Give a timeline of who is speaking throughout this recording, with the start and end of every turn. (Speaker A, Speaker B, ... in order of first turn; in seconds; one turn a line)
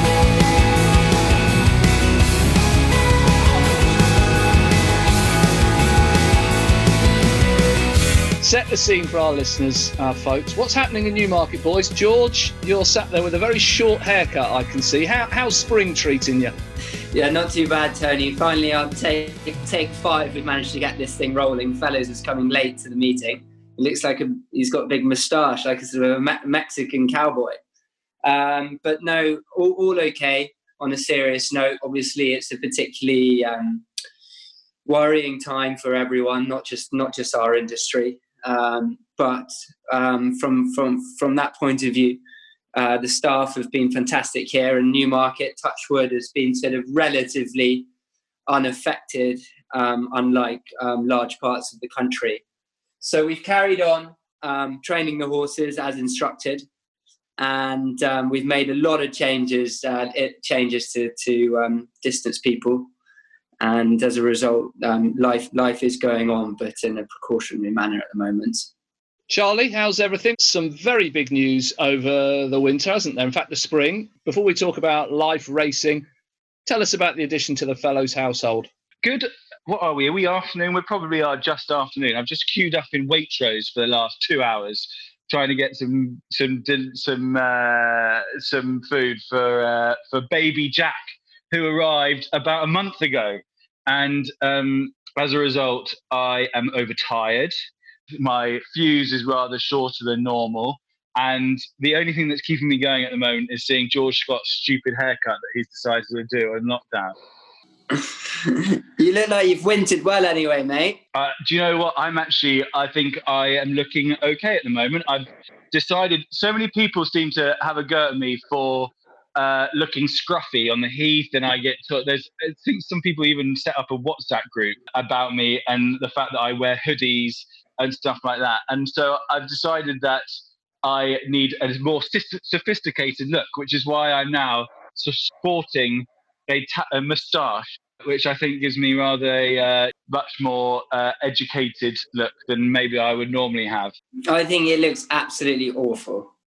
Speaker A: 8.4-16.5
Speaker B: 17.1-27.6
Speaker B: 28.2-33.8
Speaker B: 34.9-42.2
Speaker B: 42.7-47.9
Speaker B: 48.5-52.4
Speaker B: 53.0-56.6
Speaker B: 57.4-62.9
Speaker B: 63.6-68.7
Speaker A: 69.3-76.0
Speaker A: 76.7-78.7
Speaker C: 79.0-97.5
Speaker C: 98.2-107.1
Speaker B: 107.9-111.0
Speaker C: 111.1-130.2
Speaker C: 130.8-143.9
Speaker B: 144.3-146.3